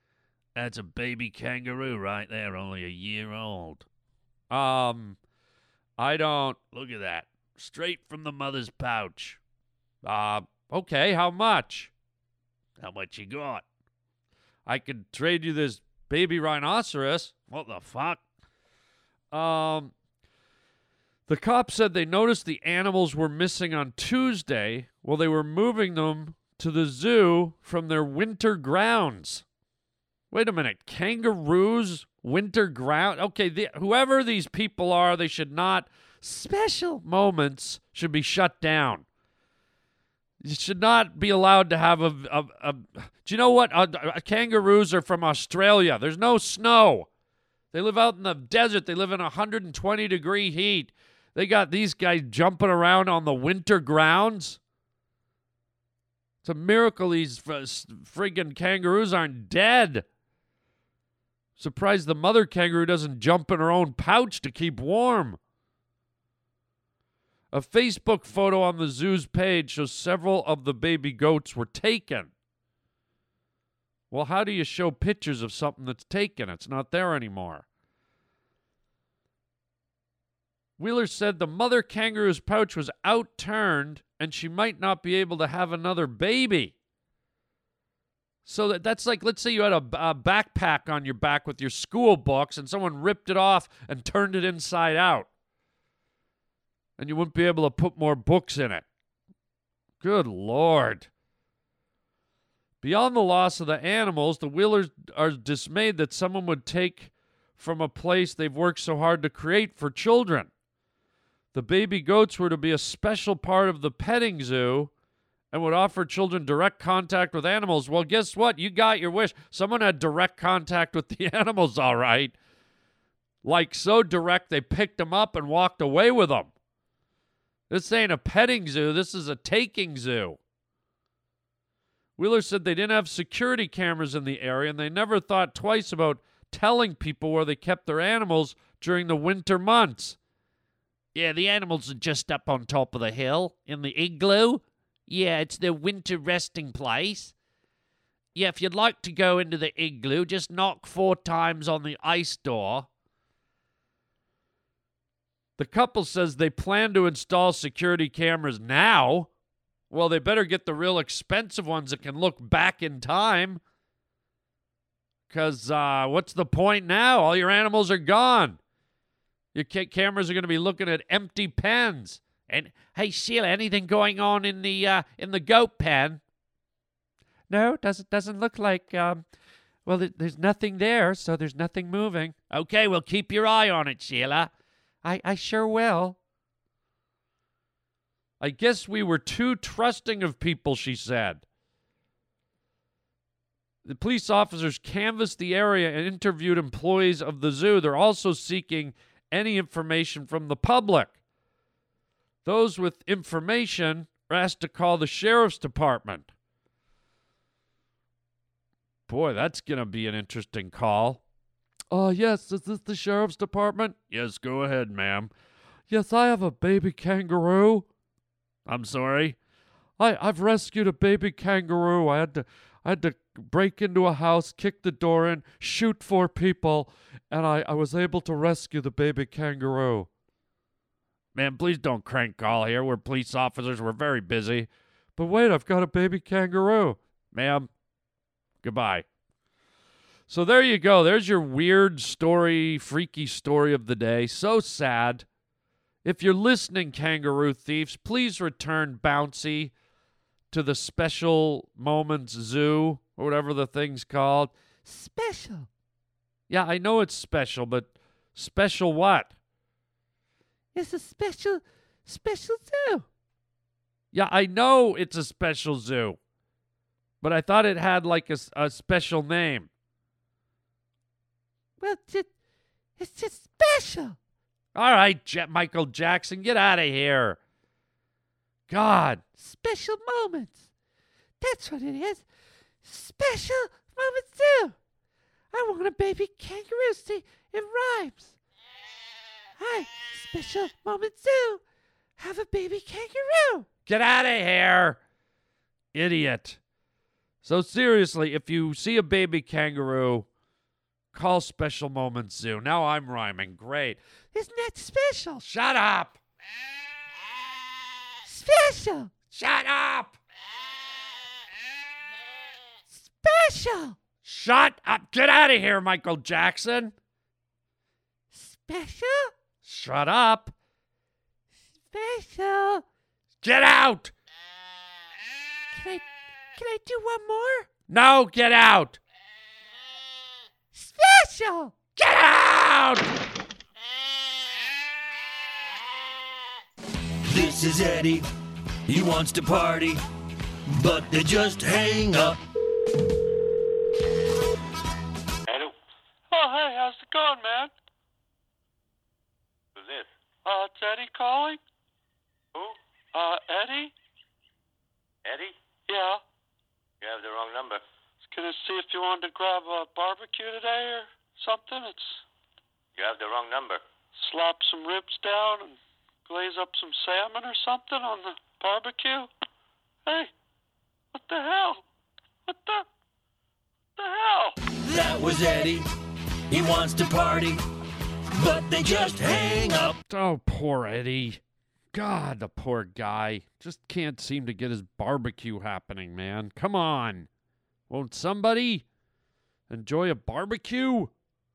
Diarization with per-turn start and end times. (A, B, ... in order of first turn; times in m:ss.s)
0:00.6-0:03.9 A
0:04.5-0:05.2 A
0:06.0-0:09.4 A
0:10.0-0:11.9 A
0:12.8-0:13.6 A
0:14.7-0:18.2 A
0:19.3-0:19.9 A
0:21.3-0:29.4 A
0:30.3-0:39.1 A
0:40.4-0:47.1 A
0:47.7-0:54.6 A
0:56.4-1:00.0 A
1:01.6-1:05.4 A
1:07.5-1:12.3 A
1:14.1-1:17.7 A
1:20.8-1:26.8 A
1:28.4-1:35.3 A
1:37.0-1:38.9 A
1:40.0-1:41.1 A
1:42.8-1:50.5 A
1:51.5-1:54.9 A
1:55.5-2:02.4 A
2:03.4-2:06.5 A
2:07.7-2:10.4 A
2:12.2-2:20.2 A
2:21.1-2:27.3 A
2:28.4-2:32.9 A
2:35.6-2:39.3 A
2:39.9-2:43.6 A
2:45.3-2:48.6 A
2:49.5-2:56.2 A
2:57.5-2:59.2 A
2:59.9-3:04.5 A
3:05.0-3:06.2 A
3:08.4-3:11.4 A
3:13.8-3:21.2 A
3:22.4-3:26.3 A
3:29.1-3:31.2 A
3:31.9-3:35.3 A
3:35.9-3:37.9 A
3:38.7-3:39.4 A
3:40.0-3:50.1 A
3:51.4-3:57.7 A
3:58.6-3:59.0 A
4:00.3-4:05.2 A
4:06.0-4:09.7 A
4:10.5-4:14.5 A
4:14.8-4:15.7 B
4:16.5-4:19.3 A
4:20.7-4:23.0 B
4:24.1-4:26.2 A
4:27.2-4:29.7 A
4:31.8-4:32.3 B
4:33.0-4:34.2 B
4:34.8-4:37.4 A
4:38.7-4:39.2 A
4:39.3-4:40.6 B
4:41.4-4:42.2 B
4:42.8-4:44.8 B
4:45.5-4:48.4 B
4:49.6-4:51.6 B
4:52.2-4:53.7 B
4:53.9-4:55.0 A
4:55.9-4:56.6 A
4:57.4-5:00.3 A
5:01.1-5:04.0 A
5:04.3-5:05.4 B
5:05.4-5:06.2 A
5:08.2-5:09.2 B
5:09.3-5:10.2 A
5:12.9-5:14.0 B
5:14.2-5:16.9 A
5:18.3-5:19.3 B
5:19.6-5:20.5 A
5:21.9-5:22.8 B
5:23.4-5:24.1 A
5:25.7-5:26.0 B
5:26.6-5:27.7 B
5:27.9-5:29.0 A
5:30.7-5:31.8 B
5:32.0-5:33.1 A
5:37.3-5:38.3 C
5:38.9-5:40.0 C
5:40.8-5:42.4 C
5:45.5-5:45.7 D
5:46.3-5:47.7 E
5:49.8-5:50.1 D
5:50.4-5:51.6 E
5:53.1-5:53.9 E
5:55.2-5:55.6 D
5:55.9-5:56.2 E
5:57.0-5:57.8 D
5:58.3-6:02.2 E
6:03.0-6:03.8 D
6:04.2-6:09.3 E
6:10.1-6:10.3 E
6:11.1-6:11.8 E
6:12.5-6:12.8 E
6:14.0-6:14.6 E
6:14.8-6:15.8 C
6:16.5-6:17.6 C
6:18.4-6:20.0 C
6:20.1-6:21.4 A
6:21.9-6:27.3 A
6:27.9-6:28.8 A
6:29.7-6:31.1 A